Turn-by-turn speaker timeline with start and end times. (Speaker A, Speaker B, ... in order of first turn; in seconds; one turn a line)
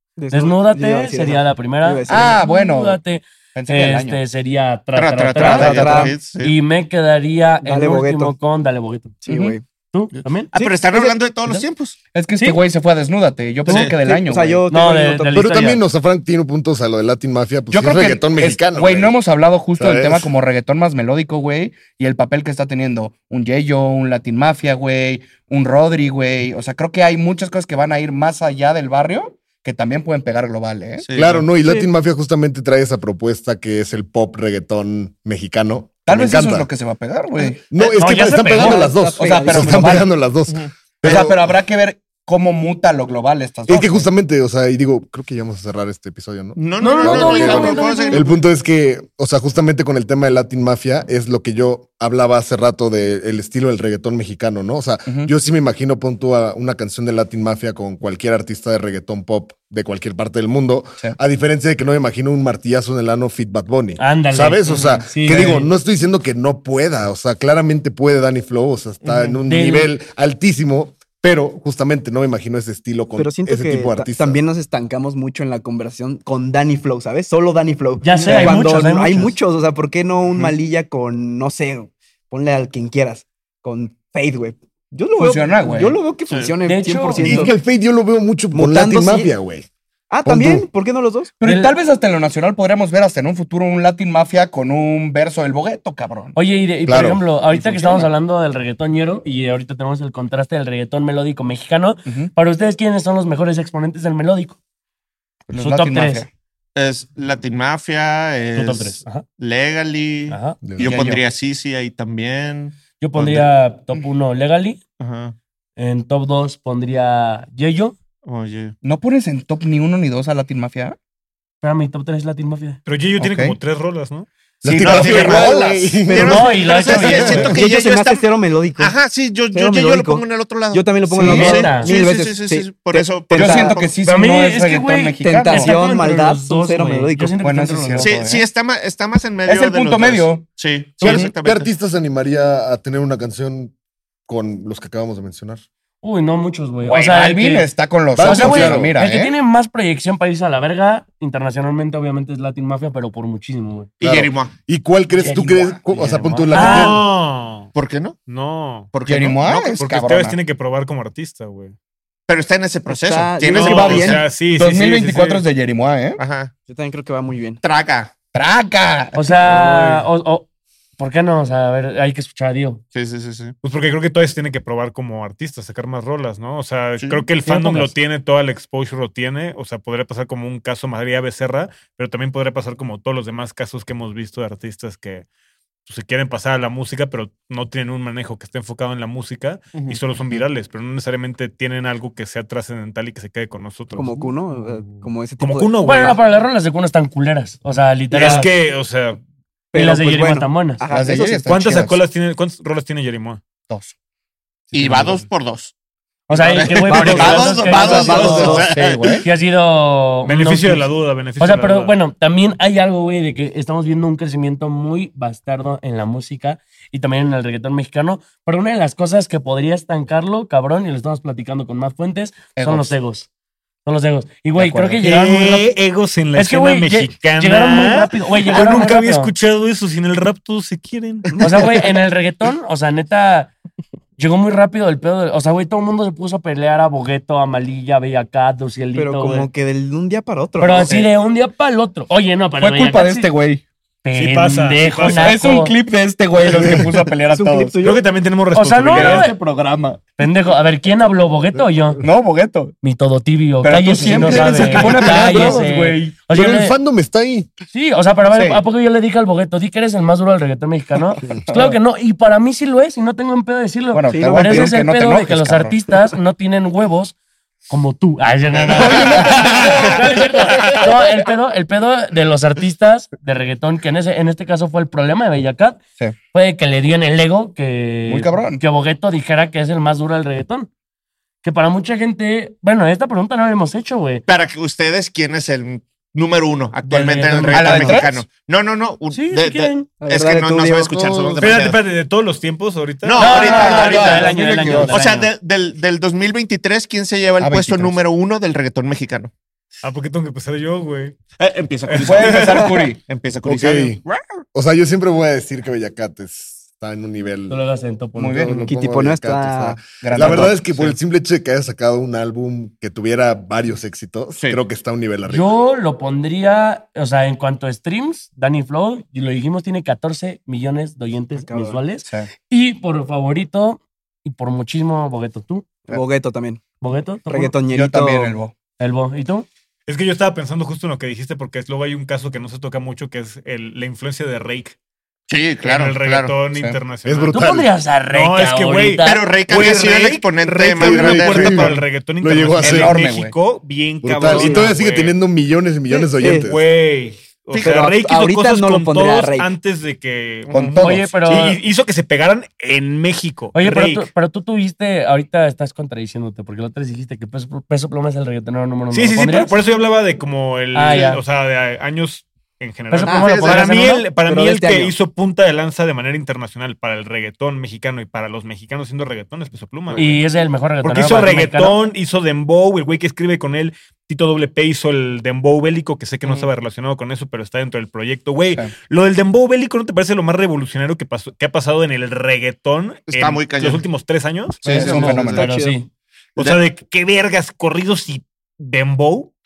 Speaker A: 0.2-2.4
Speaker B: 0.3-9.2
Speaker C: 2.1-3.0
Speaker C: 3.5-4.2
Speaker D: 4.9-6.5
Speaker A: 5.4-6.1
Speaker C: 5.5-6.0
Speaker A: 7.6-8.3
Speaker A: 9.2-9.6
Speaker C: 9.3-9.5
Speaker B: 9.9-10.5
Speaker A: 10.5-11.1
Speaker D: 10.5-12.0
Speaker C: 12.1-14.6
Speaker D: 13.7-14.0
Speaker A: 13.7-15.5
Speaker B: 14.7-15.8
Speaker E: 15.3-19.2
Speaker C: 17.7-31.1
Speaker E: 19.8-20.3
Speaker D: 31.0-31.5
Speaker E: 31.1-36.7
Speaker C: 36.1-37.6
Speaker E: 37.7-41.4
Speaker B: 37.9-38.9
Speaker A: 38.5-40.0
Speaker C: 39.1-40.1
Speaker C: 41.0-44.1
Speaker E: 43.7-74.4
Speaker D: 46.5-48.4
Speaker B: 46.8-48.3
Speaker B: 64.0-65.7
Speaker D: 64.7-65.0
Speaker D: 69.0-69.4
Speaker B: 69.5-69.9
Speaker A: 73.2-87.5
Speaker B: 78.0-79.3
Speaker C: 85.2-86.0
Speaker D: 86.3-86.6
Speaker B: 86.6-87.5
Speaker E: 87.2-89.7
Speaker A: 88.5-89.3
Speaker A: 90.1-91.3
Speaker E: 90.2-90.7
Speaker C: 91.4-96.3
Speaker B: 91.4-91.7
Speaker B: 96.3-104.6
Speaker E: 96.8-97.2
Speaker C: 97.6-98.0
Speaker C: 102.0-102.3
Speaker C: 105.5-106.3
Speaker B: 105.5-106.2
Speaker D: 106.7-113.5
Speaker B: 108.5-109.2
Speaker B: 110.3-110.6
Speaker E: 110.6-111.0
Speaker C: 110.8-111.2
Speaker B: 113.0-114.8
Speaker D: 115.0-115.3
Speaker B: 115.8-118.0
Speaker D: 118.2-118.7
Speaker C: 118.8-121.0
Speaker B: 121.6-122.8
Speaker F: 122.8-124.3
Speaker C: 123.2-123.6
Speaker E: 124.6-127.5
Speaker C: 124.6-126.0
Speaker D: 124.8-133.9
Speaker B: 126.2-127.5
Speaker A: 127.2-128.9
Speaker A: 129.5-133.8
Speaker C: 131.2-131.6
Speaker B: 131.2-131.9
Speaker C: 133.3-135.7
Speaker B: 134.0-138.2
Speaker A: 135.2-137.4
Speaker C: 137.4-138.4
Speaker D: 138.0-141.7
Speaker C: 139.4-140.5
Speaker C: 141.0-141.3
Speaker E: 141.0-143.7
Speaker E: 144.3-145.6
Speaker B: 146.0-147.7
Speaker C: 146.8-149.3
Speaker E: 148.1-148.9
Speaker B: 148.2-153.9
Speaker D: 154.0-154.5
Speaker E: 154.0-157.0
Speaker C: 155.2-156.3
Speaker B: 155.2-157.0
Speaker F: 156.5-157.7
Speaker D: 157.7-158.2
Speaker F: 158.3-158.9
Speaker D: 158.9-159.8
Speaker C: 159.0-160.4
Speaker F: 159.7-161.7
Speaker D: 162.3-164.2
Speaker A: 162.9-164.2
Speaker F: 163.4-165.4
Speaker C: 164.5-166.2
Speaker D: 166.2-166.5
Speaker A: 166.6-167.6
Speaker D: 167.6-168.1
Speaker C: 168.3-169.2
Speaker B: 169.1-170.5
Speaker A: 169.5-170.0
Speaker B: 171.0-172.8
Speaker D: 172.9-173.5
Speaker F: 173.6-185.2
Speaker D: 177.0-177.3
Speaker B: 177.4-177.9
Speaker F: 185.8-194.3
Speaker D: 189.7-190.0
Speaker A: 193.9-196.1
Speaker F: 195.4-196.2
Speaker B: 195.8-198.5
Speaker A: 198.1-198.4
Speaker F: 198.1-199.2
Speaker A: 199.7-201.5
Speaker B: 199.7-200.8
Speaker C: 200.9-202.0
Speaker F: 201.4-203.4
Speaker C: 203.7-203.9
Speaker C: 204.7-205.2
Speaker D: 204.7-205.7
Speaker B: 206.3-208.6
Speaker D: 206.3-209.2
Speaker A: 206.9-208.7
Speaker F: 207.0-207.3
Speaker C: 207.1-209.2
Speaker B: 209.2-223.3
Speaker F: 210.2-211.9
Speaker C: 222.6-222.9
Speaker B: 223.8-225.7
Speaker C: 224.5-225.1
Speaker F: 225.0-231.4
Speaker B: 226.3-229.3
Speaker A: 231.3-231.7
Speaker B: 231.4-233.5
Speaker B: 234.2-239.5
Speaker A: 238.9-241.1
Speaker B: 240.6-243.3
Speaker C: 242.6-243.6
Speaker B: 244.0-245.7
Speaker F: 244.1-245.4
Speaker C: 245.1-247.8
Speaker A: 247.3-248.0
Speaker F: 247.8-249.3
Speaker B: 248.5-249.3
Speaker C: 248.9-250.0
Speaker A: 249.0-249.3
Speaker B: 250.2-252.0
Speaker C: 252.0-252.7
Speaker B: 252.8-256.7
Speaker C: 253.6-256.2
Speaker E: 254.1-255.5
Speaker E: 256.3-257.5
Speaker B: 257.7-267.1
Speaker C: 258.3-258.6
Speaker C: 261.3-261.8
Speaker C: 263.9-265.8
Speaker A: 264.1-264.8
Speaker B: 267.7-275.8
Speaker C: 268.8-269.8
Speaker B: 276.3-280.7
Speaker C: 278.1-278.6
Speaker B: 281.4-284.2
Speaker D: 284.3-291.8
Speaker B: 286.9-288.0
Speaker C: 287.5-288.2
Speaker B: 289.1-289.9
Speaker A: 290.0-291.4
Speaker F: 291.4-293.3
Speaker D: 293.0-299.3
Speaker B: 293.2-295.3
Speaker C: 293.2-294.9
Speaker A: 293.4-295.0
Speaker C: 297.4-298.0
Speaker F: 299.8-301.1
Speaker D: 301.4-304.1
Speaker F: 301.9-302.6
Speaker C: 302.0-303.0
Speaker E: 303.4-304.0
Speaker E: 304.5-307.6
Speaker B: 307.5-308.7
Speaker C: 308.1-308.7
Speaker E: 308.4-315.5
Speaker A: 308.7-309.9
Speaker C: 309.8-310.6
Speaker F: 310.2-311.0
Speaker D: 314.4-314.6
Speaker B: 315.2-325.6
Speaker A: 321.4-321.8
Speaker A: 325.9-326.6
Speaker B: 326.8-327.6
Speaker A: 327.3-328.3
Speaker C: 327.7-328.5
Speaker B: 328.8-329.5
Speaker F: 329.9-334.7
Speaker D: 335.3-336.4
Speaker F: 335.6-337.4
Speaker C: 336.5-336.8
Speaker E: 337.0-337.7
Speaker B: 337.3-339.3
Speaker F: 338.1-345.2
Speaker D: 339.0-341.8
Speaker E: 340.8-343.0
Speaker C: 342.6-343.3
Speaker E: 344.0-346.6
Speaker A: 344.2-344.7
Speaker A: 345.9-346.5
Speaker F: 346.4-354.1
Speaker D: 347.5-347.8
Speaker A: 347.6-349.5
Speaker C: 350.5-351.1
Speaker B: 350.8-351.6
Speaker B: 353.5-359.5
Speaker F: 358.9-370.2
Speaker B: 360.7-361.2
Speaker B: 362.9-364.1
Speaker A: 363.0-364.9
Speaker B: 369.9-371.8
Speaker F: 370.8-385.0
Speaker D: 383.1-383.9
Speaker C: 384.6-385.5
Speaker A: 384.6-385.8
Speaker B: 384.7-385.9
Speaker F: 386.4-389.3